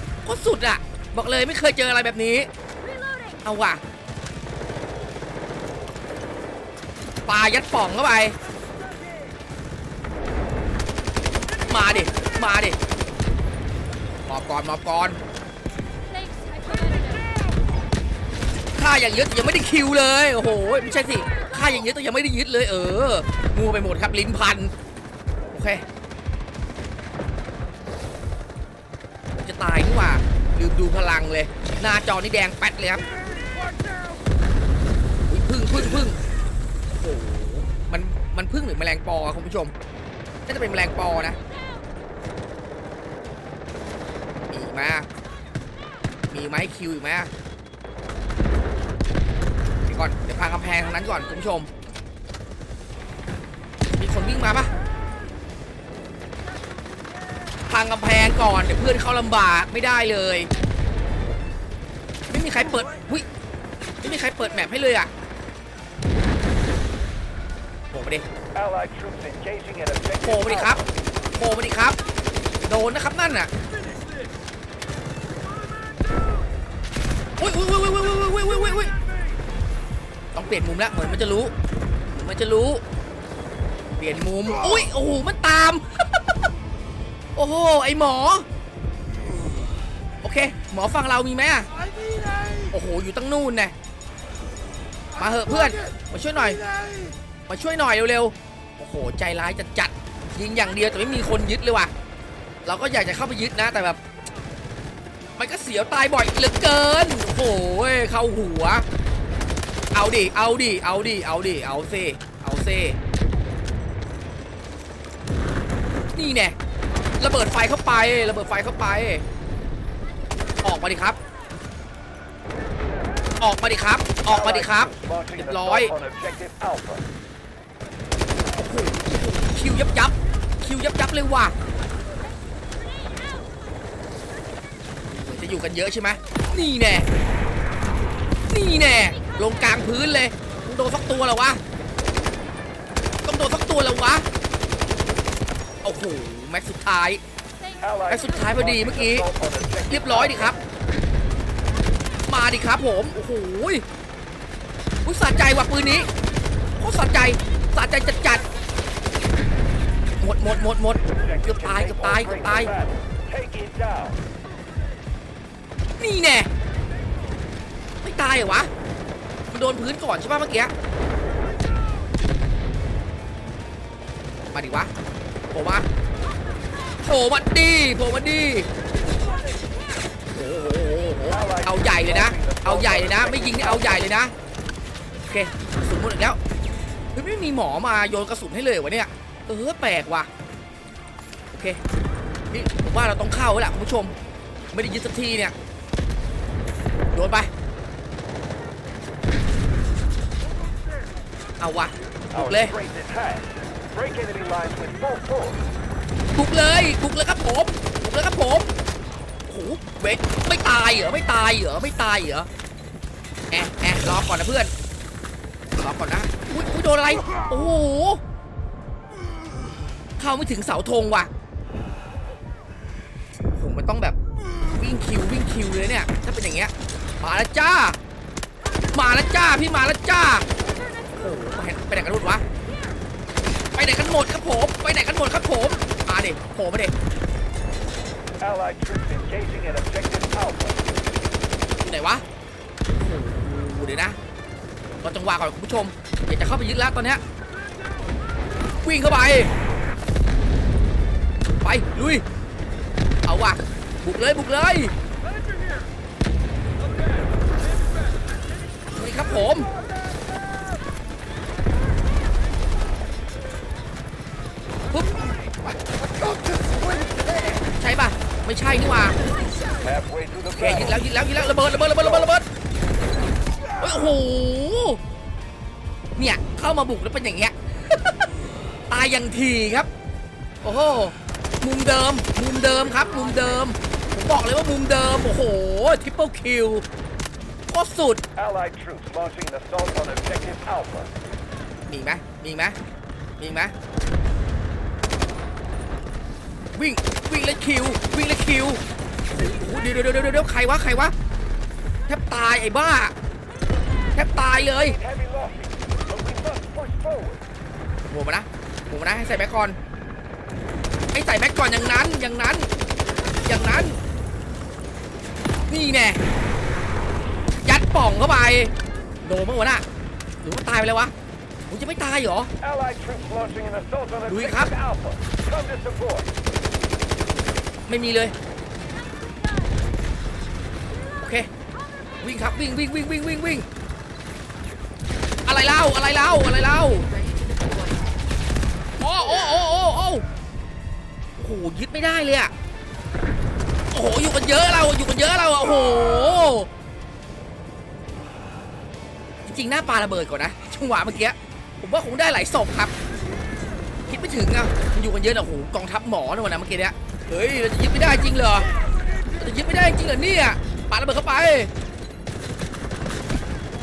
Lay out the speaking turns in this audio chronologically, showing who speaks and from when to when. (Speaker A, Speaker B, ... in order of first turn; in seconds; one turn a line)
Speaker A: 0.2-2.5
Speaker A: 3.4-3.8
Speaker A: 7.2-8.3
Speaker A: 11.7-12.8
Speaker A: 14.3-15.2
Speaker A: 18.8-24.7
Speaker A: 25.5-25.8
Speaker A: 29.3-33.0
Speaker A: 35.3-36.2
Speaker A: 36.9-39.7
Speaker A: 40.5-41.4
Speaker A: 44.5-45.1
Speaker A: 46.3-47.3
Speaker A: 49.8-51.7
Speaker A: 53.9-54.7
Speaker A: 57.7-60.5
Speaker A: 62.3-63.2
Speaker A: 64.0-65.1
Speaker A: 67.9-68.3
Speaker B: 68.9-70.0
Speaker A: 70.2-72.0
Speaker A: 72.7-73.5
Speaker A: 77.4-78.9
Speaker A: 80.3-81.5
Speaker A: 82.1-82.8
Speaker A: 84.0-86.2
Speaker A: 87.3-88.5
Speaker A: 90.2-91.7
Speaker A: 92.7-93.7
Speaker A: 95.2-96.6
Speaker A: 97.5-101.9
Speaker A: 102.6-104.0
Speaker A: 105.4-108.8
Speaker A: 109.9-113.0
Speaker A: 116.1-116.5
Speaker A: 117.2-119.2
Speaker A: 120.6-121.2
Speaker A: 123.4-125.9
Speaker A: 128.5-131.5
Speaker A: 135.1-137.1
Speaker A: 138.5-141.6
Speaker A: 143.2-144.3
Speaker A: 145.8-147.2
Speaker A: 148.1-150.6
Speaker A: 152.3-153.8
Speaker A: 155.0-156.1
Speaker A: 156.8-158.4
Speaker A: 160.2-162.8
Speaker B: 163.6-164.0
Speaker A: 166.0-166.5
Speaker A: 168.0-168.7
Speaker A: 169.5-170.7
Speaker A: 174.5-174.9
Speaker A: 175.5-175.9
Speaker A: 177.0-178.7
Speaker A: 180.3-184.3
Speaker A: 185.3-186.4
Speaker A: 187.1-190.3
Speaker A: 191.5-191.8
Speaker A: 192.5-194.1
Speaker A: 194.7-195.5
Speaker A: 197.1-197.5
Speaker A: 201.6-202.8
Speaker B: 202.8-203.4
Speaker B: 203.9-205.5
Speaker A: 206.3-208.7
Speaker A: 209.5-212.5
Speaker A: 213.5-214.7
Speaker A: 215.8-218.2
Speaker A: 220.2-221.3
Speaker A: 223.5-224.2
Speaker A: 224.7-228.0
Speaker A: 228.9-230.4
Speaker A: 231.1-232.4
Speaker A: 233.7-236.9
Speaker B: 238.7-240.6
Speaker A: 241.8-242.2
Speaker A: 243.0-244.2
Speaker A: 245.0-247.2
Speaker A: 248.8-249.5
Speaker A: 251.6-252.2
Speaker A: 253.2-254.9
Speaker A: 258.9-259.7
Speaker A: 264.9-265.2
Speaker A: 267.8-269.2
Speaker A: 270.5-272.4
Speaker A: 273.8-275.0
Speaker A: 276.2-278.1
Speaker A: 278.9-279.9
Speaker A: 280.6-286.8
Speaker A: 287.7-288.2
Speaker B: 288.5-291.1
Speaker A: 291.9-292.8
Speaker A: 293.4-293.7
Speaker A: 296.8-301.1
Speaker A: 302.1-303.1
Speaker A: 304.1-305.0
Speaker B: 305.1-307.4
Speaker A: 308.1-309.8
Speaker A: 311.1-312.7
Speaker A: 313.4-314.0
Speaker A: 315.7-316.2
Speaker A: 317.6-318.7
Speaker A: 319.2-319.8
Speaker A: 320.4-321.1
Speaker A: 321.7-322.5
Speaker B: 322.8-324.1
Speaker A: 324.3-324.7
Speaker B: 325.6-326.1
Speaker A: 327.9-328.3
Speaker A: 331.2-331.5
Speaker A: 332.2-333.7
Speaker A: 335.4-337.1
Speaker A: 339.0-340.2
Speaker A: 341.4-342.5
Speaker A: 343.9-346.7
Speaker A: 349.4-352.9
Speaker A: 354.1-358.7
Speaker A: 359.3-361.7